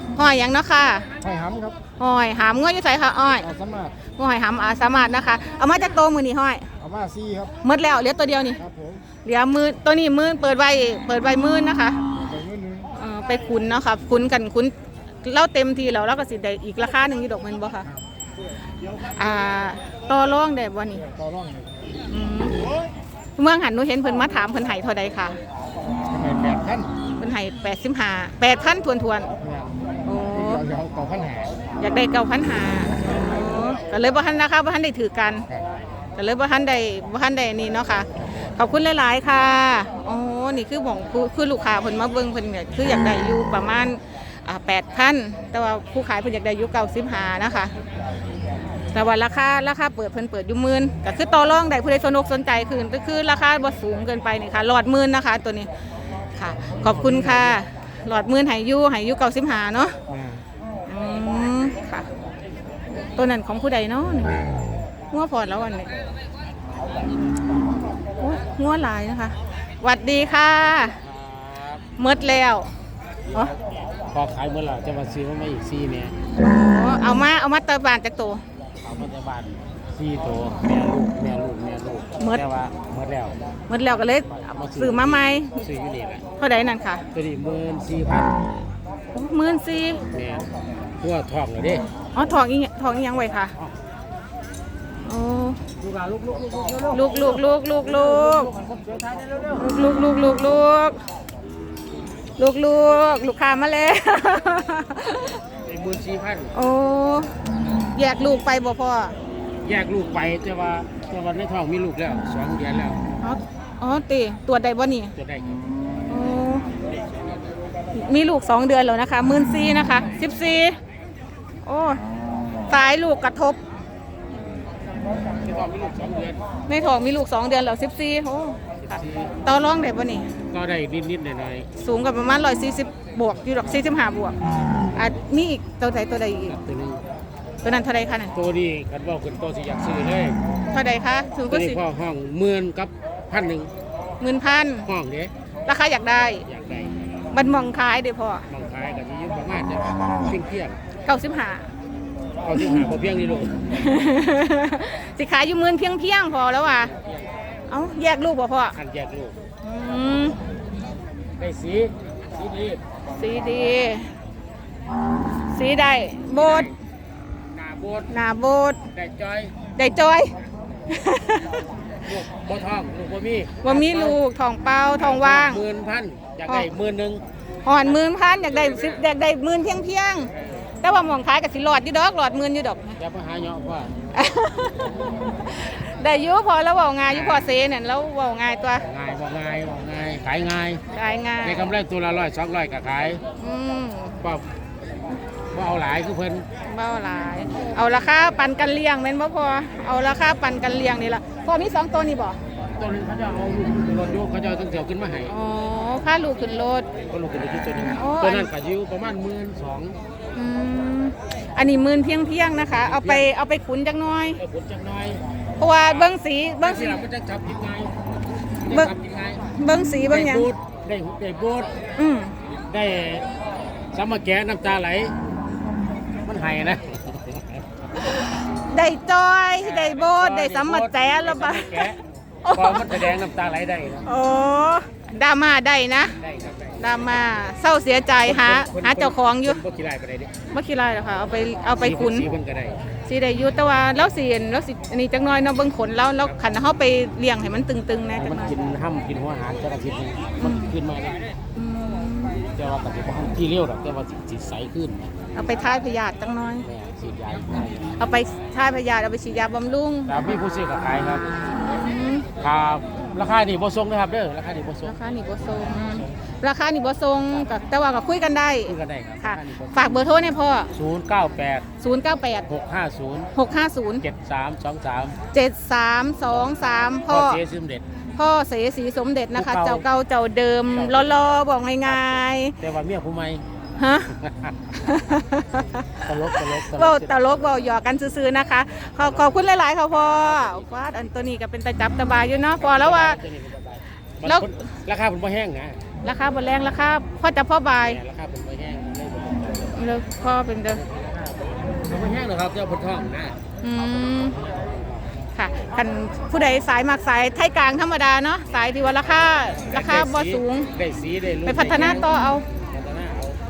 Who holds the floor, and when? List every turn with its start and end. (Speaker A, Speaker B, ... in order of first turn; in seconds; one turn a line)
Speaker A: 0.2-1.1
Speaker B: 1.2-1.8
Speaker A: 2.0-3.5
Speaker B: 3.4-4.0
Speaker A: 4.2-6.7
Speaker B: 6.8-7.5
Speaker A: 7.6-8.6
Speaker B: 8.6-9.0
Speaker A: 9.2-12.0
Speaker B: 12.1-12.9
Speaker A: 13.0-14.7
Speaker A: 15.2-17.9
Speaker A: 19.2-21.1
Speaker B: 21.1-21.8
Speaker A: 22.1-22.6
Speaker A: 23.4-25.4
Speaker B: 26.1-26.9
Speaker A: 27.2-29.3
Speaker B: 29.4-29.7
Speaker A: 30.1-30.6
Speaker B: 30.3-31.6
Speaker A: 31.8-35.5
Speaker A: 36.2-47.7
Speaker A: 48.9-55.7
Speaker A: 56.4-60.0
Speaker B: 56.9-57.5
Speaker B: 60.1-60.4
Speaker A: 60.9-62.1
Speaker A: 63.2-64.3
Speaker A: 65.1-65.9
Speaker A: 68.2-71.0
Speaker C: 71.0-71.8
Speaker A: 72.0-72.7
Speaker C: 74.1-76.1
Speaker A: 76.4-78.4
Speaker C: 78.8-83.4
Speaker A: 83.7-85.6
Speaker C: 83.9-86.2
Speaker A: 86.4-87.0
Speaker C: 87.1-88.7
Speaker A: 89.1-90.0
Speaker C: 90.1-90.5
Speaker C: 91.0-91.8
Speaker A: 92.2-93.5
Speaker A: 95.0-95.6
Speaker C: 95.8-97.3
Speaker B: 95.9-97.1
Speaker A: 96.9-98.5
Speaker C: 97.9-99.5
Speaker B: 98.3-99.6
Speaker A: 99.5-101.0
Speaker A: 102.4-105.4
Speaker C: 105.7-106.5
Speaker A: 106.5-107.3
Speaker A: 107.9-109.2
Speaker C: 109.6-113.0
Speaker A: 113.2-115.1
Speaker C: 115.2-115.6
Speaker A: 116.1-116.6
Speaker C: 116.9-117.4
Speaker A: 117.9-120.8
Speaker A: 121.7-122.0
Speaker A: 122.7-123.6
Speaker C: 125.4-126.4
Speaker A: 126.7-130.3
Speaker C: 128.8-129.3
Speaker C: 130.5-131.7
Speaker A: 131.8-134.3
Speaker A: 134.9-136.6
Speaker C: 136.5-137.0
Speaker A: 137.6-138.3
Speaker C: 138.3-140.4
Speaker A: 140.7-141.8
Speaker C: 141.5-143.7
Speaker A: 144.2-144.9
Speaker C: 144.9-145.3
Speaker A: 145.7-146.4
Speaker C: 146.5-146.9
Speaker A: 147.3-148.4
Speaker C: 148.5-150.8
Speaker A: 151.1-151.7
Speaker C: 152.4-153.7
Speaker A: 153.8-156.9
Speaker C: 156.9-157.3
Speaker A: 157.7-158.8
Speaker C: 158.8-159.4
Speaker A: 159.6-160.4
Speaker C: 161.4-162.8
Speaker A: 163.2-164.1
Speaker A: 165.5-166.7
Speaker C: 166.3-166.7
Speaker C: 167.5-168.1
Speaker A: 168.1-168.8
Speaker C: 168.9-169.6
Speaker A: 169.8-170.3
Speaker A: 170.9-171.5
Speaker C: 172.1-174.2
Speaker A: 173.6-175.6
Speaker C: 175.0-177.2
Speaker A: 177.7-180.3
Speaker C: 177.8-179.0
Speaker C: 180.3-180.7
Speaker A: 180.8-183.0
Speaker C: 183.0-183.9
Speaker A: 184.2-188.8
Speaker C: 187.1-187.5
Speaker C: 188.8-190.8
Speaker A: 190.9-191.7
Speaker C: 191.4-193.2
Speaker A: 193.4-194.2
Speaker C: 195.5-196.5
Speaker A: 196.7-202.4
Speaker C: 197.5-197.8
Speaker C: 202.8-205.3
Speaker A: 205.3-206.9
Speaker C: 207.0-210.0
Speaker A: 208.0-208.5
Speaker A: 210.4-214.4
Speaker C: 212.7-213.3
Speaker C: 214.4-215.2
Speaker A: 215.6-217.0
Speaker C: 216.6-217.9
Speaker C: 218.6-219.4
Speaker A: 219.6-220.5
Speaker C: 220.1-221.7
Speaker A: 222.0-222.3
Speaker C: 222.7-223.3
Speaker C: 223.9-225.1
Speaker C: 226.2-227.7
Speaker A: 228.1-231.9
Speaker C: 229.6-232.0
Speaker A: 232.4-233.0
Speaker C: 232.6-234.1
Speaker A: 234.1-236.2
Speaker C: 236.2-237.2
Speaker A: 236.8-239.6
Speaker C: 238.2-240.3
Speaker A: 240.5-242.3
Speaker C: 241.8-242.8
Speaker A: 243.1-248.5
Speaker C: 248.2-251.2
Speaker A: 250.4-250.7
Speaker A: 251.6-252.4
Speaker C: 252.6-255.1
Speaker A: 255.4-256.6
Speaker C: 256.6-258.0
Speaker A: 258.0-260.2
Speaker C: 260.1-261.3
Speaker A: 261.6-262.3
Speaker C: 262.4-265.0
Speaker A: 264.9-270.7
Speaker C: 265.7-266.2
Speaker C: 268.7-270.0
Speaker C: 270.7-271.7
Speaker A: 271.8-272.5
Speaker C: 272.5-273.3
Speaker A: 273.4-274.0
Speaker C: 274.0-275.2
Speaker A: 275.3-277.4
Speaker C: 277.1-277.8
Speaker A: 278.2-282.6
Speaker C: 279.4-279.9
Speaker C: 280.7-281.3
Speaker C: 281.8-283.4
Speaker A: 283.8-284.1
Speaker C: 284.1-284.6
Speaker A: 284.7-286.0
Speaker C: 286.0-287.6
Speaker A: 286.7-293.2
Speaker C: 289.0-291.1
Speaker C: 292.6-295.8
Speaker A: 296.0-298.0
Speaker C: 297.9-303.4
Speaker A: 299.8-300.8
Speaker A: 303.6-304.4
Speaker C: 304.4-305.0
Speaker A: 305.4-310.7
Speaker C: 309.6-313.4
Speaker A: 311.5-312.4